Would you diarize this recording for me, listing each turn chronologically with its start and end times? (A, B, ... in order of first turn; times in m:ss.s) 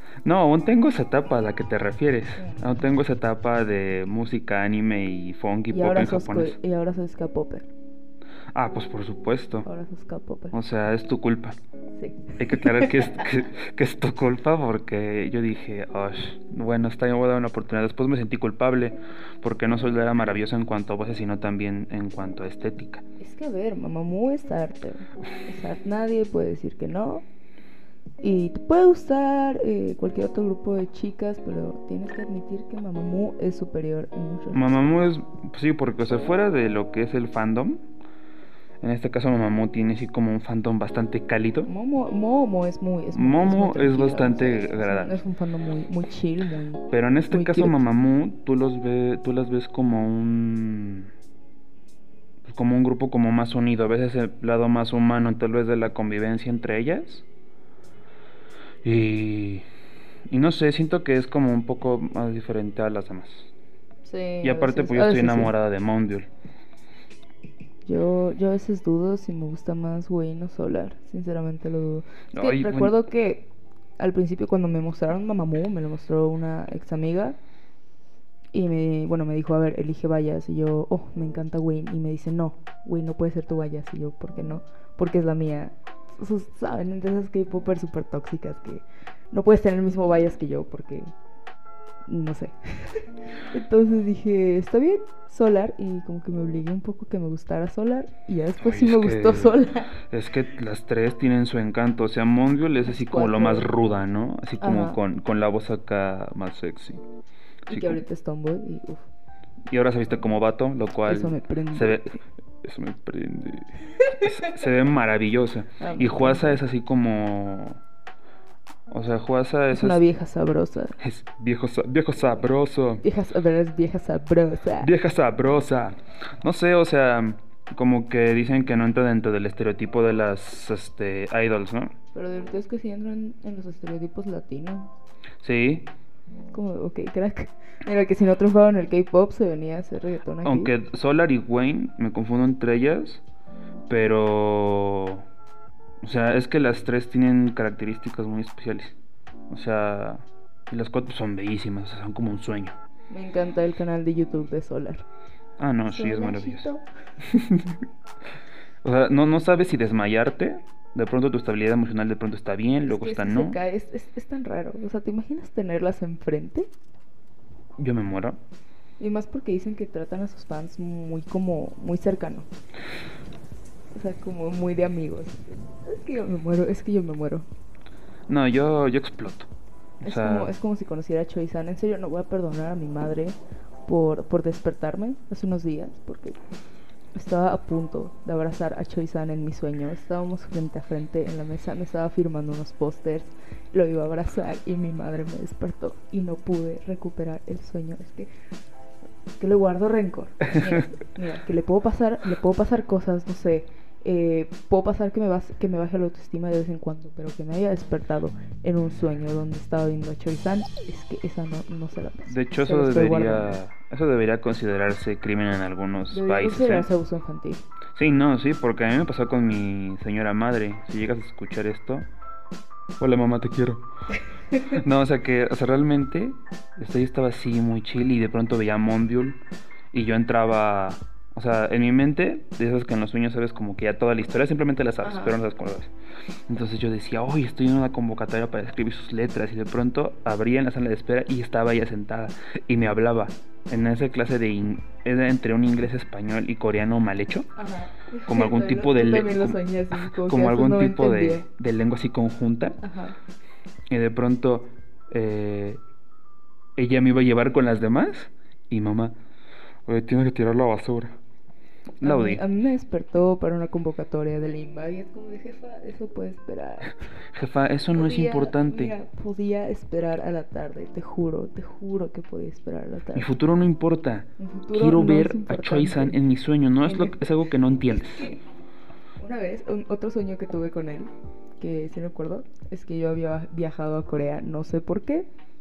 0:00.2-0:06.6 A
0:02.4-0:02.7 B
0:05.7-0:07.7 B
0:08.5-0:09.7 A
0:09.6-0:10.6 B
0:10.5-0:11.6 A
0:12.0-0:13.2 B
0:12.4-0:23.0 A
0:23.2-0:27.2 B
0:28.2-0:34.6 B
0:34.5-0:37.8 A
0:38.8-0:41.7 A
0:41.6-0:47.8 B
0:43.1-0:45.2 A
0:46.9-0:51.1 A
0:52.4-0:57.2 A
0:58.8-0:59.6 A
1:00.3-1:03.5 A
1:04.0-1:05.5 B
1:04.4-1:06.3 A
1:07.8-1:17.4 B
1:12.3-1:12.9 A
1:18.5-1:31.1 B
1:32.1-1:40.0 B
1:38.6-1:47.0 A
1:42.8-1:43.7 B
1:44.6-1:45.0 B
1:47.7-1:49.1 B
1:47.7-1:48.0 A
1:49.7-1:57.8 A
1:51.0-1:52.2 B
1:55.8-1:56.6 B
1:58.9-2:00.0 A
1:59.7-2:01.0 B
2:01.0-2:03.0 A
2:03.0-2:04.9 B
2:04.8-2:11.9 A
2:12.1-2:14.9 B
2:15.4-2:15.9 A
2:16.5-2:20.7 B
2:20.4-2:23.2 A
2:23.9-2:25.2 A
2:26.0-2:29.0 A
2:29.5-2:32.8 A
2:33.1-2:35.0 B
2:35.6-2:36.6 A
2:35.9-2:36.8 B
2:37.2-2:37.8 A
2:38.8-2:43.6 A
2:42.8-2:46.7 B
2:47.8-2:48.4 A
2:49.0-2:52.5 B
2:53.9-2:57.5 B
2:58.3-2:59.5 A
3:00.0-3:00.5 A
3:00.0-3:06.4 B
3:07.1-3:18.3 B
3:19.4-3:33.6 B
3:32.3-3:36.9 A
3:36.1-3:37.6 B
3:37.9-3:42.1 A
3:43.0-3:43.8 A
3:44.6-3:49.4 A
3:49.9-3:55.9 A
3:55.0-3:55.4 B
3:56.5-4:07.5 A
4:07.6-4:11.4 B
4:08.2-4:12.8 A
4:12.8-4:13.2 B
4:13.9-4:15.8 A
4:16.8-4:19.2 A
4:19.8-4:21.2 A
4:22.0-4:27.0 B
4:22.0-4:22.4 A
4:27.3-4:28.9 A
4:27.9-4:33.3 B
4:33.1-4:38.4 A
4:34.4-4:36.2 B
4:36.8-4:37.2 B
4:38.1-4:38.4 B
4:39.2-4:45.3 B